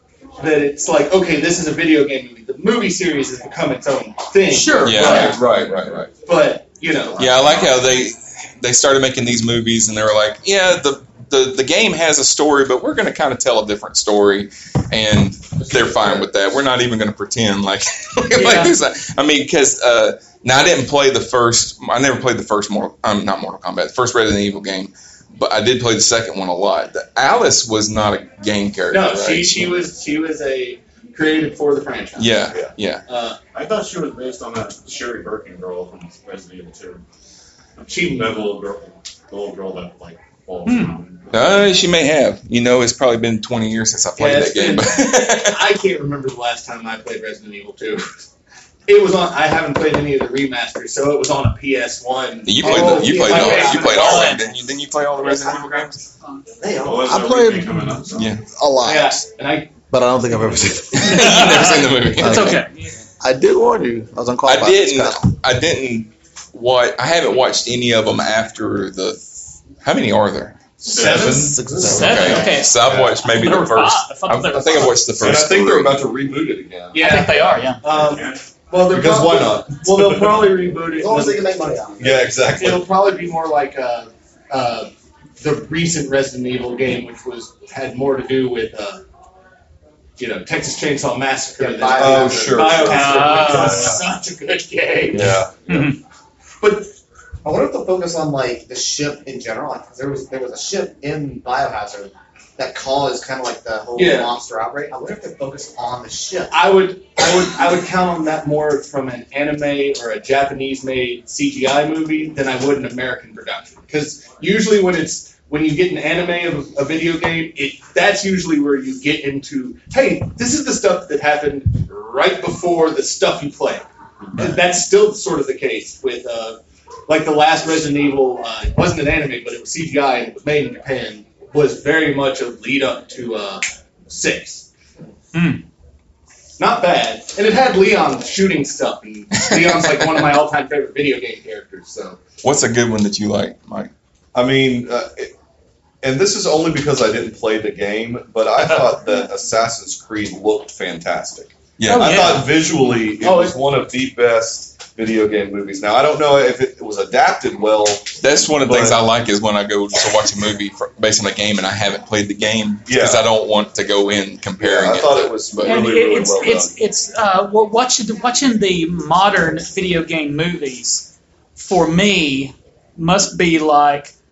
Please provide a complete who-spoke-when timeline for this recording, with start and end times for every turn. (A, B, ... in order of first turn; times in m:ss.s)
0:00.4-0:05.6 A
0:04.5-0:05.4 B
0:04.8-0:06.1 C
0:05.0-0:06.0 D
0:06.2-0:07.6 A
0:07.2-0:29.7 C
0:15.6-0:16.2 E
0:18.3-0:18.7 B
0:28.9-0:32.5 A
0:32.2-0:33.0 C
0:33.1-0:33.4 A
0:33.5-0:37.0 F
0:37.8-0:41.7 F
0:37.9-0:38.6 A
0:40.6-0:41.0 B
0:41.3-0:45.6 C
0:44.2-0:48.1 A
0:48.9-0:54.4 A
0:52.4-0:56.0 C
0:52.6-0:53.7 E
0:53.3-0:54.6 B
0:55.4-0:55.8 B
0:56.8-0:58.4 F
0:56.8-0:58.0 G
0:58.1-0:58.4 C
0:58.5-0:59.2 G
0:58.8-0:59.7 A
0:59.9-1:01.5 G
1:00.9-1:02.6 C
1:01.0-1:03.0 B
1:02.1-1:02.6 G
1:03.2-1:05.3 G
1:04.4-1:10.6 C
1:10.9-1:11.5 F
1:10.9-1:11.6 A
1:11.0-1:11.4 D
1:11.2-1:12.4 G
1:11.6-1:12.0 E
1:11.8-1:15.0 B
1:12.0-1:16.0 C
1:12.9-1:13.2 D
1:15.1-1:17.1 D
1:16.9-1:21.7 A
1:16.9-1:17.8 B
1:17.8-1:18.4 F
1:18.9-1:20.3 D
1:20.9-1:22.3 E
1:22.0-1:22.9 D
1:22.5-1:29.0 A
1:30.2-1:35.8 A
1:31.6-1:32.9 E
1:31.9-1:34.0 D
1:32.8-1:34.2 B
1:35.1-1:35.6 D
1:35.7-1:36.0 B
1:36.6-1:36.9 A
1:37.4-1:46.6 E
1:43.9-1:44.4 A
1:46.5-2:14.6 A
2:15.3-2:15.6 B
2:16.6-2:22.2 A
2:22.4-2:23.9 C
2:24.3-2:25.3 D
2:26.0-2:39.0 D
2:31.8-2:32.4 C
2:31.9-2:32.5 B
2:33.2-2:33.6 A
2:38.2-2:45.8 C
2:42.9-2:43.2 D
2:44.6-2:46.7 D
2:45.6-2:54.1 B